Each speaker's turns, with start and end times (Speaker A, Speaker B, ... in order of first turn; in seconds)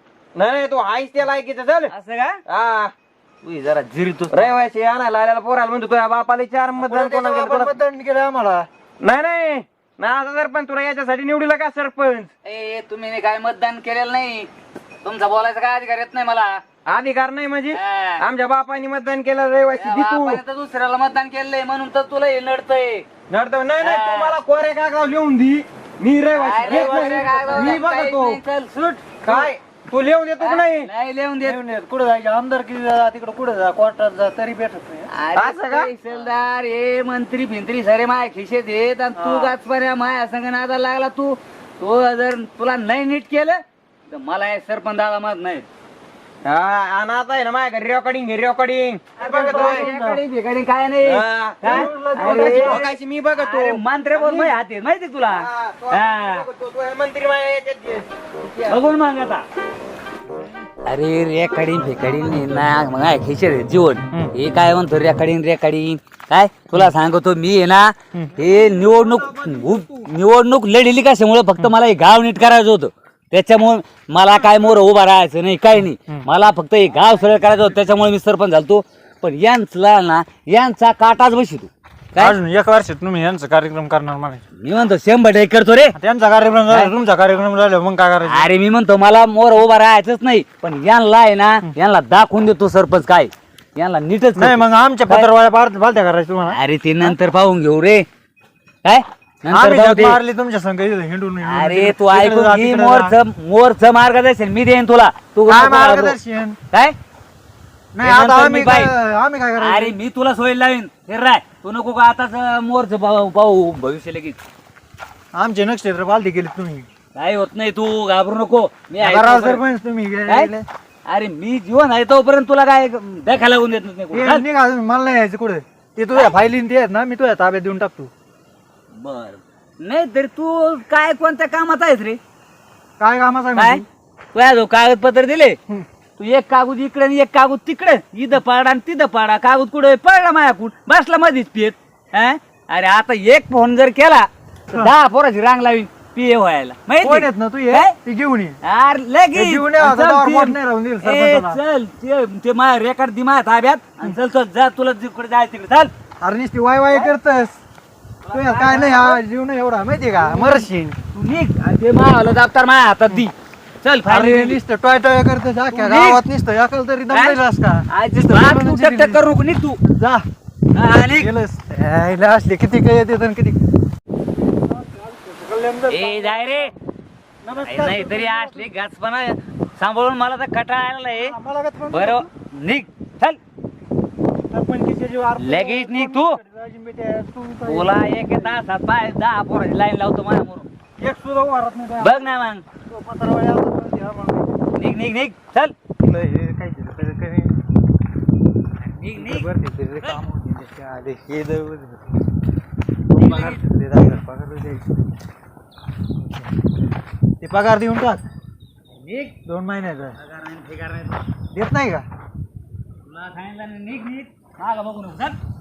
Speaker A: 0.3-1.9, 2.5-2.9, 4.3-7.8, 9.0-12.3, 16.9-20.4, 23.3-28.3, 29.2-30.9, 35.4-35.9, 46.4-49.9, 51.0-54.5, 55.3-58.8
Speaker B: 1.9-2.4, 3.4-4.5, 12.4-14.5, 15.0-16.6, 17.7-18.2, 19.8-23.1, 23.8-24.4, 26.3-29.4, 30.4-31.6, 35.1-45.7, 49.2-56.5, 58.6-59.4, 60.8-82.4, 84.6-85.9, 88.2-95.3, 96.5-98.0, 98.8-100.2, 101.4-106.2, 108.0-108.9, 109.6-114.4, 117.1-119.6, 121.1-124.4, 128.9-132.2, 133.6-133.8, 134.3-135.6, 136.2-147.9, 148.6-155.9, 158.2-159.2, 160.2-164.6, 165.7-166.2, 167.1-169.8, 170.7-171.3, 175.9-176.7, 177.6-181.3, 181.9-183.4, 185.4-186.4, 187.7-190.7, 192.0-192.6, 194.7-195.7, 198.8-199.5, 203.1-203.7, 209.0-209.4, 210.2-211.2, 213.0-215.4
Speaker C: 6.8-8.7, 26.7-28.3, 31.4-35.1, 39.2-39.5, 49.2-50.2, 51.6-52.9, 68.1-70.0, 74.3-74.6, 82.2-84.4, 86.0-88.5, 94.3-97.1, 99.5-103.1, 105.5-106.5, 107.9-110.0, 115.3-116.9, 119.0-120.7, 124.1-128.1, 133.0-133.8, 147.0-148.6, 149.3-151.6, 156.2-157.6, 158.3-161.0, 164.1-169.2, 170.0-170.2, 171.1-173.6, 174.6-176.7, 177.4-178.7, 181.1-182.2, 184.5-188.0, 191.0-192.3, 192.9-194.6, 196.0-197.5, 199.1-202.1, 203.1-204.9, 207.4-208.2, 209.4-210.1, 211.5-212.1